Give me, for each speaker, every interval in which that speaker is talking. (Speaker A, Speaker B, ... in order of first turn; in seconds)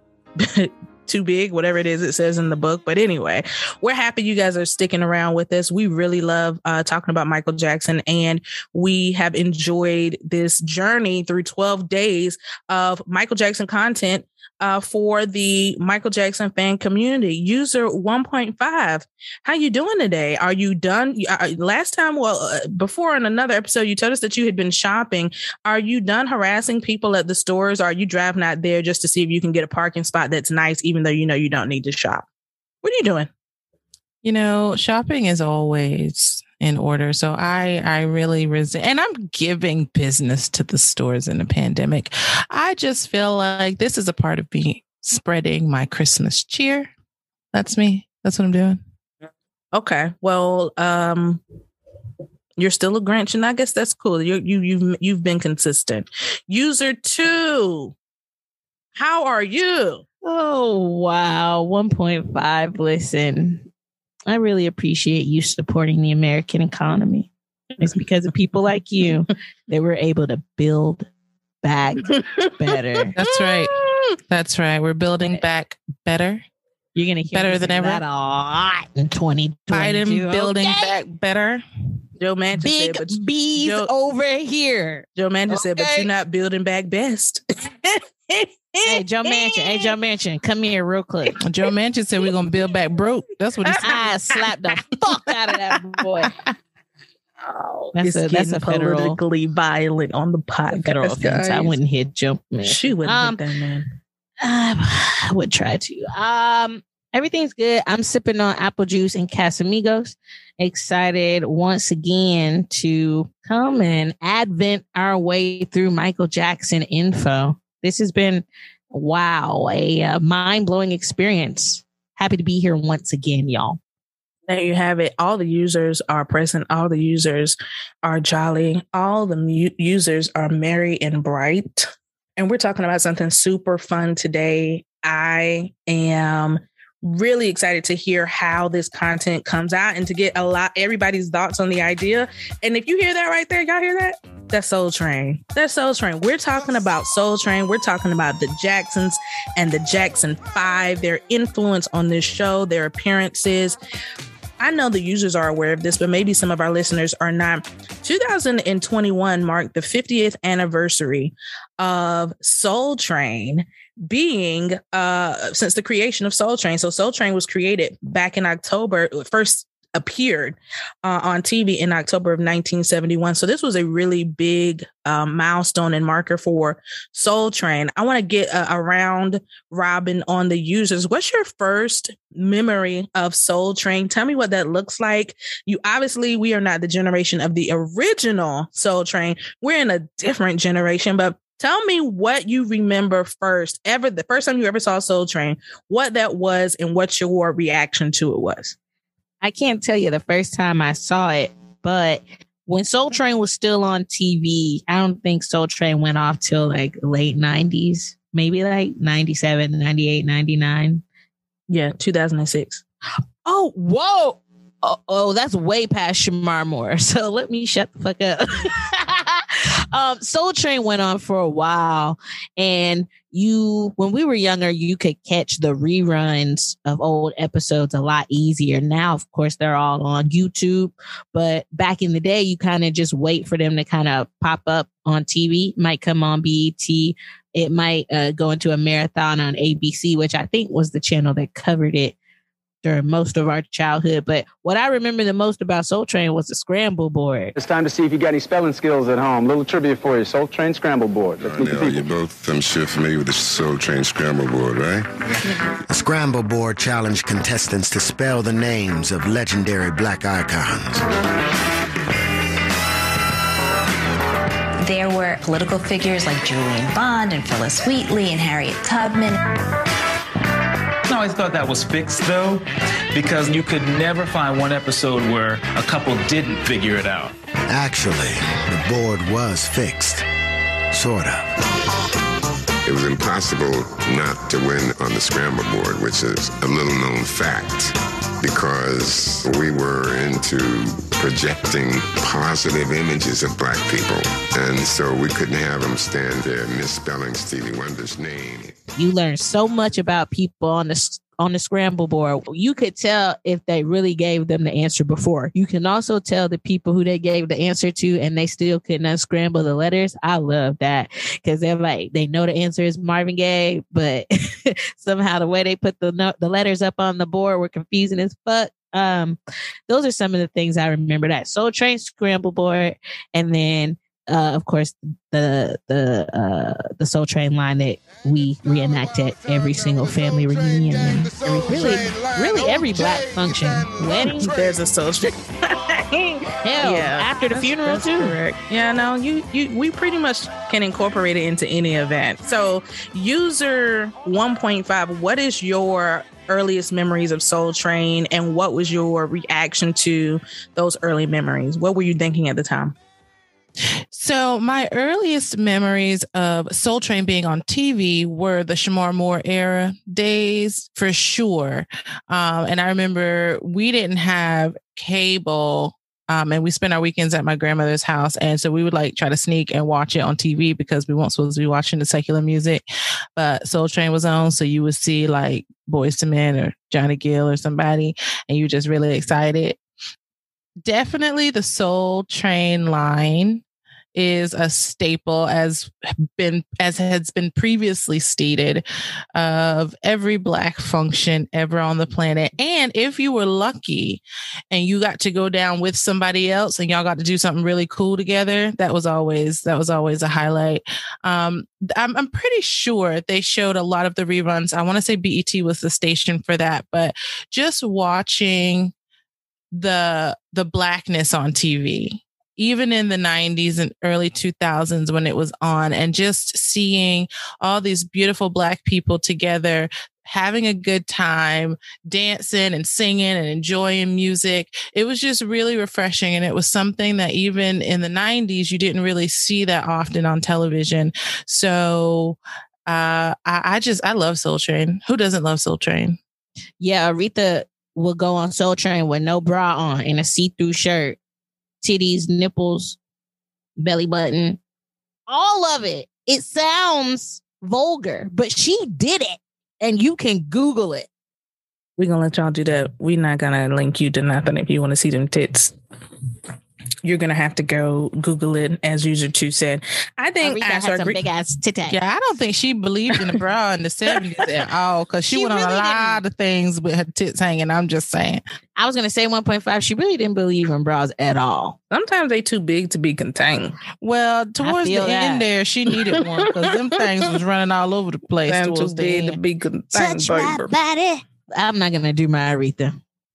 Speaker A: 0.4-32.2, 32.8-33.3, 49.7-51.4, 52.6-57.9, 59.0-60.0, 72.1-74.1, 82.2-83.9, 85.2-89.9, 93.7-94.4, 97.4-101.8, 102.6-103.9, 124.5-153.8, 154.6-198.8, 211.7-212.8, 331.7-332.1, 334.2-352.9, 452.0-455.8, 457.0-461.2, 471.9-473.8, 478.5-480.7
Speaker B: 34.2-46.9, 47.5-48.8, 73.2-73.8, 74.3-76.4, 77.3-78.0, 79.7-81.6, 91.4-94.0, 354.1-372.8, 373.4-379.8, 380.8-383.6, 384.1-388.8, 389.4-408.9, 409.7-436.2, 461.9-468.4, 474.0-479.4
Speaker C: 60.2-63.6, 64.3-71.1, 71.6-73.1, 77.0-80.9, 82.6-86.1, 88.8-91.4, 93.8-96.3, 98.0-99.2, 100.7-103.4, 104.4-123.8, 199.4-211.0, 213.4-242.2, 242.8-247.6, 299.0-334.5, 336.6-338.4, 436.8-441.2, 441.8-443.0, 443.8-444.6, 445.3-451.1, 460.4-462.0, 465.3-466.2, 468.8-471.8, 474.6-475.5, 479.9-483.0
Speaker D: 247.6-252.1
Speaker E: 251.4-255.6, 282.8-298.8
Speaker F: 255.9-261.1, 277.7-280.3, 280.9-281.5
Speaker G: 264.8-269.4
Speaker H: 271.1-277.3